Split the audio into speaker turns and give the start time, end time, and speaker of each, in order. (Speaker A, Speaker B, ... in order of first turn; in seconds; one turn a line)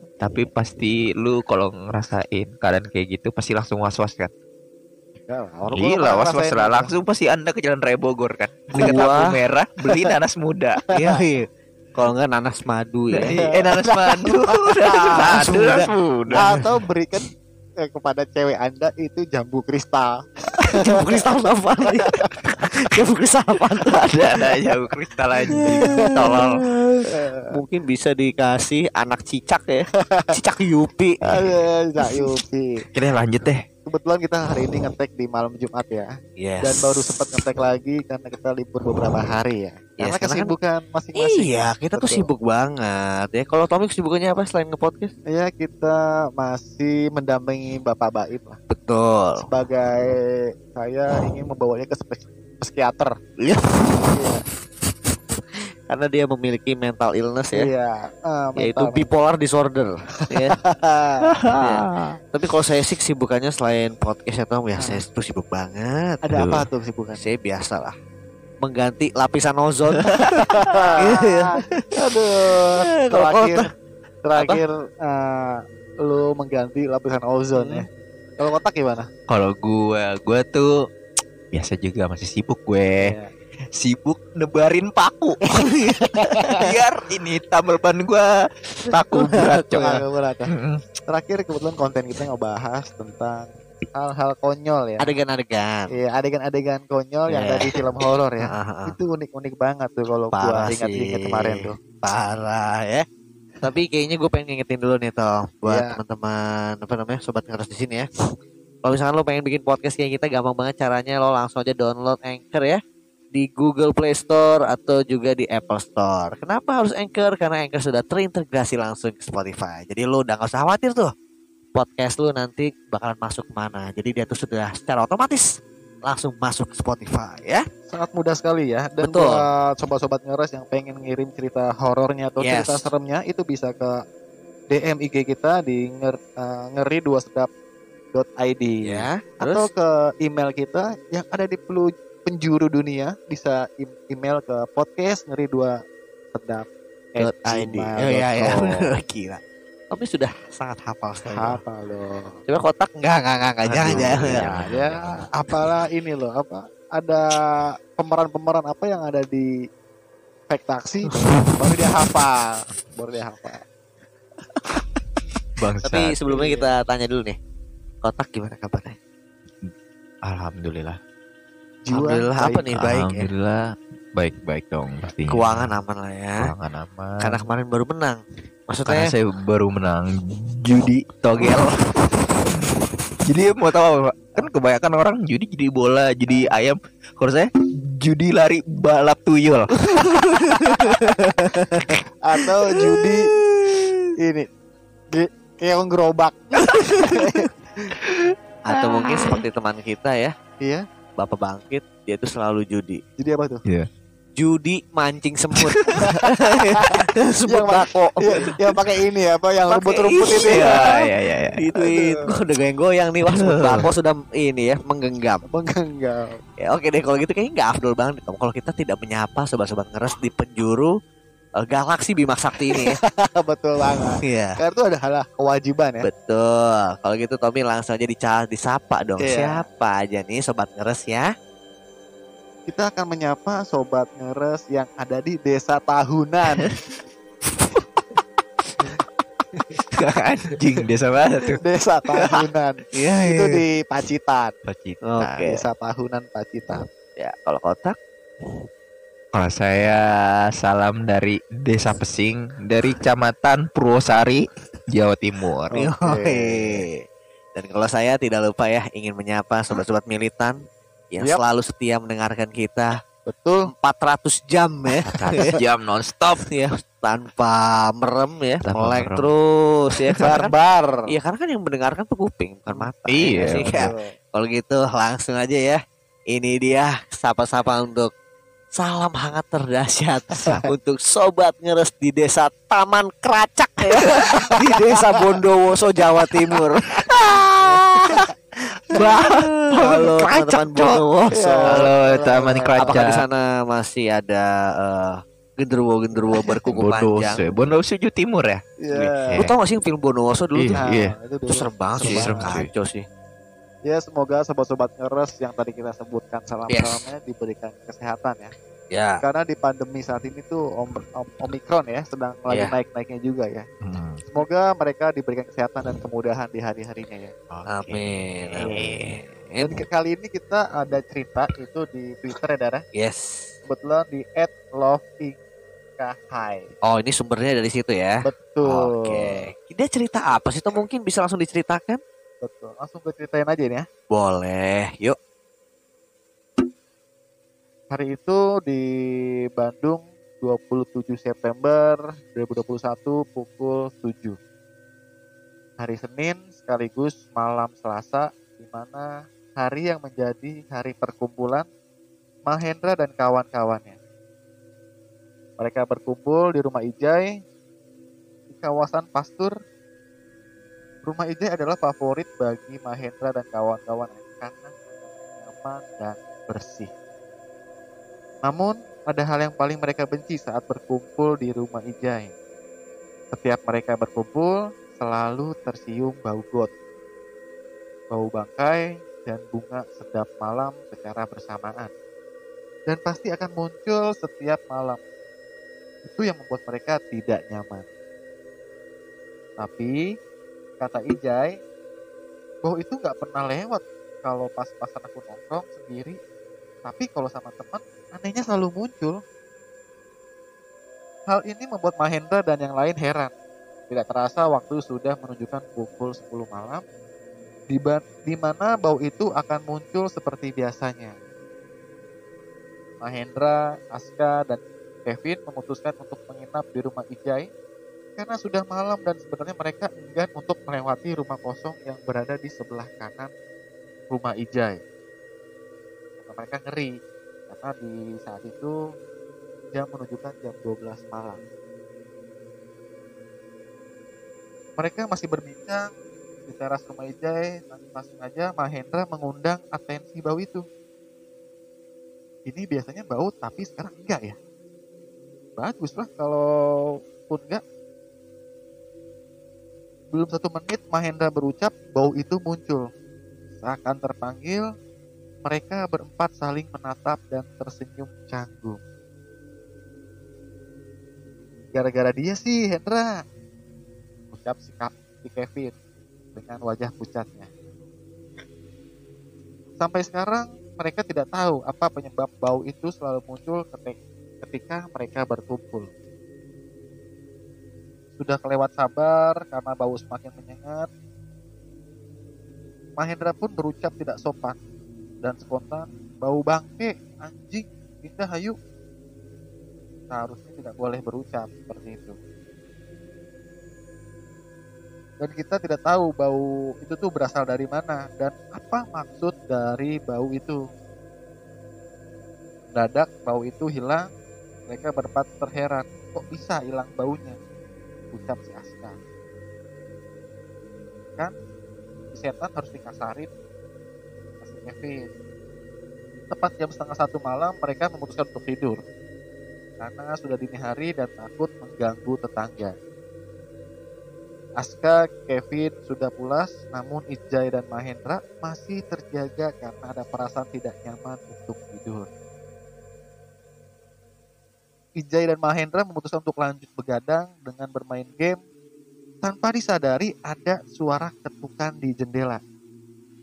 Speaker A: 0.2-4.3
Speaker B: 5.3-6.9
Speaker A: 5.7-10.8
Speaker B: 8.7-9.1
Speaker C: 8.8-9.3
Speaker C: 10.9-13.4
Speaker A: 13.2-16.5
Speaker B: 13.4-15.3
Speaker C: 15.1-16.7
Speaker B: 16.3-21.1
Speaker C: 20.7-24.6
Speaker B: 21.9-22.3
Speaker A: 23.9-26.5
Speaker B: 25.5-26.1
Speaker C: 25.5-32.3
Speaker B: 27.1-27.6
Speaker B: 30.1-30.4
Speaker B: 31.3-32.8
Speaker A: 32.9-33.6
Speaker B: 33.9-42.3
Speaker C: 36.4-37.2
Speaker C: 40.0-40.5
Speaker C: 41.1-45.1
Speaker B: 45.3-48.6
Speaker C: 48.7-49.5
Speaker B: 49.4-53.1
Speaker C: 53.4-57.7
Speaker B: 54.1-54.4
Speaker B: 57.5-59.1
Speaker C: 58.6-60.5
Speaker B: 60.4-61.2
Speaker A: 61.4-62.0
Speaker C: 61.5-66.2
Speaker B: 64.8-65.0
Speaker B: 66.2-67.2
Speaker A: 66.3-66.6
Speaker C: 67.2-67.9
Speaker C: 68.6-71.9
Speaker B: 70.3-73.7
Speaker C: 72.5-73.7
Speaker B: 74.2-77.9
Speaker C: 77.5-77.8
Speaker B: 78.4-79.1
Speaker A: 79.3-80.7
Speaker A: 81.5-83.1
Speaker B: 83.0-83.3
Speaker A: 83.7-85.7
Speaker C: 85.6-86.7
Speaker B: 86.0-86.7
Speaker A: 86.5-90.0
Speaker C: 89.0-90.0
Speaker B: 89.8-90.5
Speaker A: 90.5-90.8
Speaker B: 91.1-95.1
Speaker C: 95.0-95.9
Speaker B: 95.9-101.8
Speaker C: 97.3-97.7
Speaker C: 98.4-98.9
Speaker C: 100.3-103.0
Speaker C: 103.6-108.1
Speaker B: 105.7-106.0
Speaker C: 108.8-112.8
Speaker C: 113.3-121.1
Speaker C: 121.7-125.5
Speaker C: 126.1-127.6
Speaker B: 127.9-134.0
Speaker C: 129.0-129.4
Speaker C: 132.4-132.8
Speaker B: 134.7-137.5
Speaker B: 138.1-145.7
Speaker C: 138.8-139.7
Speaker B: 146.3-148.9
Speaker C: 147.2-149.4
Speaker C: 149.9-151.6
Speaker B: 151.2-152.4
Speaker C: 152.5-154.4
Speaker A: 153.7-155.2
Speaker B: 153.8-159.5
Speaker B: 160.5-163.6
Speaker C: 161.1-161.5
Speaker A: 165.6-166.2
Speaker C: 165.8-167.4
Speaker B: 166.3-166.7
Speaker C: 168.0-169.0
Speaker A: 170.2-171.0
Speaker B: 171.8-172.7
Speaker C: 171.9-173.3
Speaker A: 172.8-175.7
Speaker C: 175.3-176.5
Speaker A: 176.4-177.5
Speaker C: 177.2-179.1
Speaker A: 178.8-182.7
Speaker C: 181.4-181.7
Speaker A: 183.2-191.1
Speaker B: 186.3-186.5
Speaker C: 190.2-192.0
Speaker B: 192.2-193.3
Speaker C: 193.0-194.0
Speaker B: 194.2-194.5
Speaker B: 195.1-197.9
Speaker C: 196.7-197.3
Speaker C: 198.7-200.3
Speaker B: 199.1-199.4
Speaker C: 201.2-203.0
Speaker B: 203.2-203.6
Speaker C: 204.4-208.5
Speaker A: 205.6-206.0
Speaker B: 206.0-210.9
Speaker C: 209.7-215.4
Speaker A: 210.4-211.6
Speaker B: 211.8-212.3
Speaker A: 213.3-213.9
Speaker B: 215.5-216.4
Speaker C: 216.6-220.9
Speaker C: 221.6-223.0
Speaker B: 222.7-226.1
Speaker C: 224.2-224.6
Speaker C: 226.0-231.3
Speaker B: 229.2-229.6
Speaker B: 232.7-236.8
Speaker A: 239.8-241.6
Speaker B: 241.6-244.5
Speaker C: 242.9-243.6
Speaker A: 244.7-245.4
Speaker C: 245.0-245.6
Speaker B: 245.3-246.8
Speaker C: 247.2-248.6
Speaker A: 249.3-255.8
Speaker B: 255.7-256.8
Speaker C: 255.7-257.0
Speaker C: 257.6-260.6
Speaker C: 261.1-262.9
Speaker B: 263.3-263.7
Speaker C: 263.7-265.5
Speaker A: 265.1-266.4
Speaker C: 266.4-270.5
Speaker A: 268.7-269.3
Speaker A: 270.1-270.4
Speaker B: 270.2-271.1
Speaker C: 271.1-275.8
Speaker B: 272.7-274.1
Speaker A: 273.1-273.9
Speaker C: 276.3-278.1
Speaker C: 278.8-288.2
Speaker B: 284.1-285.2
Speaker A: 288.9-291.0
Speaker C: 288.9-291.9
Speaker B: 291.3-293.0
Speaker A: 291.6-293.2
Speaker C: 292.8-297.6
Speaker A: 296.6-299.5
Speaker B: 298.8-299.4
Speaker C: 299.4-300.8
Speaker A: 300.6-301.1
Speaker B: 300.8-302.6
Speaker C: 301.5-303.1
Speaker A: 302.0-302.7
Speaker B: 303.9-308.5
Speaker C: 306.7-307.0
Speaker C: 308.9-309.2
Speaker B: 309.2-313.7
Speaker C: 312.5-312.7
Speaker A: 313.8-314.3
Speaker B: 314.3-317.3
Speaker A: 317.5-319.2
Speaker C: 317.7-319.8
Speaker B: 319.6-322.8
Speaker C: 322.9-323.5
Speaker B: 323.7-325.4
Speaker B: 326.0-326.7
Speaker C: 326.9-332.0
Speaker B: 328.2-329.4
Speaker B: 332.4-333.9
Speaker C: 334.1-335.2
Speaker B: 337.9-338.9
Speaker B: 339.5-344.4
Speaker B: 345.8-351.7
Speaker B: 352.5-354.0
Speaker B: 355.6-357.3
Speaker B: 358.5-359.5
Speaker B: 361.0-366.9
Speaker B: 368.4-372.3
Speaker B: 373.3-376.7
Speaker B: 378.1-381.9
Speaker B: 382.9-385.0
Speaker B: 386.0-387.9
Speaker B: 389.6-390.0
Speaker B: 390.8-391.6
Speaker B: 392.6-396.2
Speaker B: 396.8-399.2
Speaker B: 401.3-403.3
Speaker B: 403.9-406.8
Speaker B: 407.7-411.1
Speaker B: 413.0-417.5
Speaker B: 418.2-423.3
Speaker B: 424.1-424.8
Speaker B: 426.2-426.9
Speaker B: 427.5-428.8
Speaker B: 429.7-431.4
Speaker B: 434.8-435.9
Speaker B: 436.4-440.6
Speaker B: 442.4-444.4
Speaker B: 445.6-447.6
Speaker B: 450.1-452.9
Speaker B: 453.6-454.7
Speaker B: 455.4-458.8
Speaker B: 461.7-463.2
Speaker B: 464.3-465.7
Speaker B: 466.3-467.5
Speaker B: 469.8-475.9
Speaker B: 478.2-480.9
Speaker B: 483.0-484.6
Speaker B: 485.2-488.6
Speaker B: 490.1-492.2
Speaker B: 495.2-500.6
Speaker B: 502.7-504.1
Speaker B: 504.7-507.4
Speaker B: 508.1-509.0
Speaker B: 512.1-513.3
Speaker B: 514.4-515.1
Speaker B: 516.3-518.8
Speaker B: 519.8-522.7
Speaker B: 524.6-532.1
Speaker B: 535.0-538.4
Speaker B: 539.2-542.4